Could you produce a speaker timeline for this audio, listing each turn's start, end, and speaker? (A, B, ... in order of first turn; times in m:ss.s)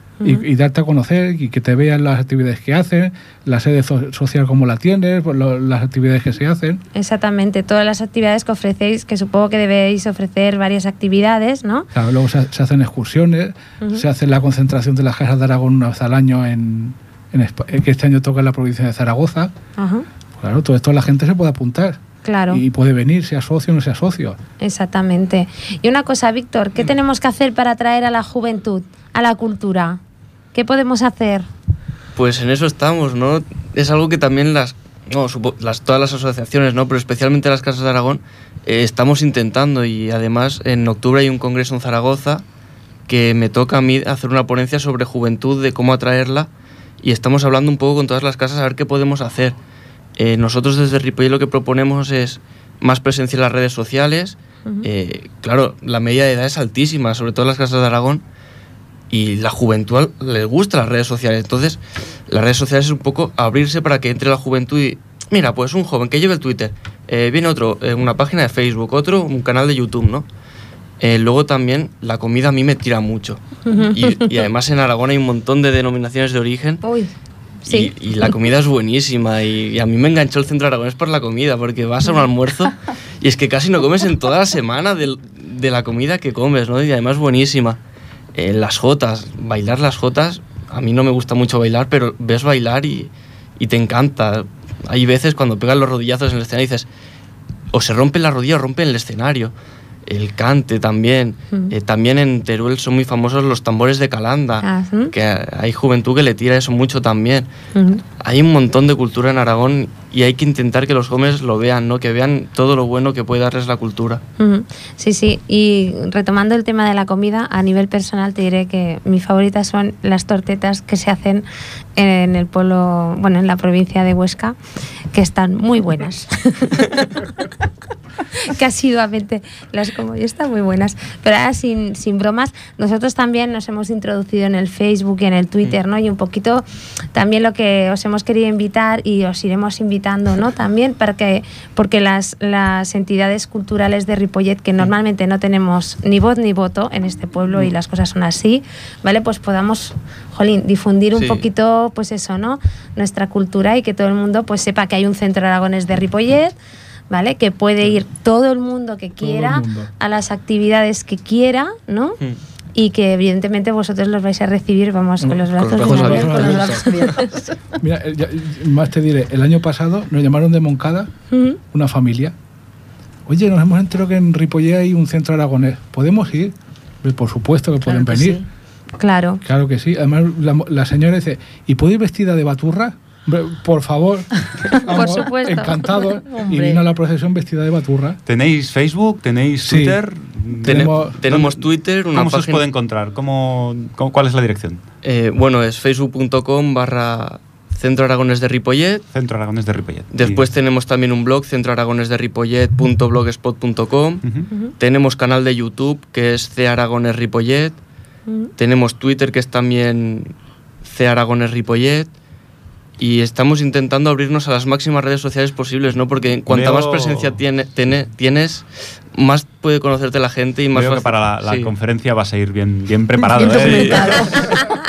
0:00.2-0:06.8 A
0:06.9-0:11.9 B
0:11.9-0:19.5 A
0:19.8-0:20.0 B
0:20.4-0:24.4 A
0:22.2-0:22.6 B
0:24.6-0:30.0 B
0:30.5-0:31.4 B
0:32.1-0:42.4 C
0:43.1-0:46.5 C
0:47.0-0:49.6 C
0:50.2-0:58.2 C
0:59.1-1:10.2 C
1:11.0-1:16.8 C
1:13.7-1:14.3 B
1:16.8-1:17.1 B
1:17.6-1:27.8 C
1:17.7-1:17.9 B
1:28.3-1:36.9 C
1:37.7-1:39.5 C
1:40.0-1:47.5 C
1:44.6-1:45.1 B
1:47.7-1:48.0 B
1:48.1-1:54.2 C
1:54.4-2:04.6 B
2:05.1-2:07.3 B
2:08.3-2:36.5 B
2:31.1-2:31.5 C
2:37.1-2:42.2 B
2:39.2-2:39.9 A
2:42.7-2:46.9 B
2:45.2-2:46.9 A
2:45.5-2:46.5 C
2:46.0-2:47.6 D
2:47.8-2:51.1 A
2:51.3-2:51.6 B
2:51.7-2:52.3 A
2:53.3-2:58.4 A
2:57.8-2:58.4 D
2:59.0-2:59.4 B
2:59.4-3:08.2 A
3:04.9-3:06.0 B
3:06.2-3:06.8 D
3:08.2-3:14.8 E
3:09.6-3:10.0 A
3:10.6-3:11.2 A
3:11.2-3:12.6 C
3:15.0-3:19.0 C
3:19.1-3:20.4 E
3:20.1-3:24.2 C
3:24.8-3:27.8 C
3:28.6-3:32.1 C
3:33.0-3:41.7 C
3:36.5-3:37.4 E
3:40.7-3:44.4 E
3:43.3-3:44.5 D
3:43.4-3:44.3 C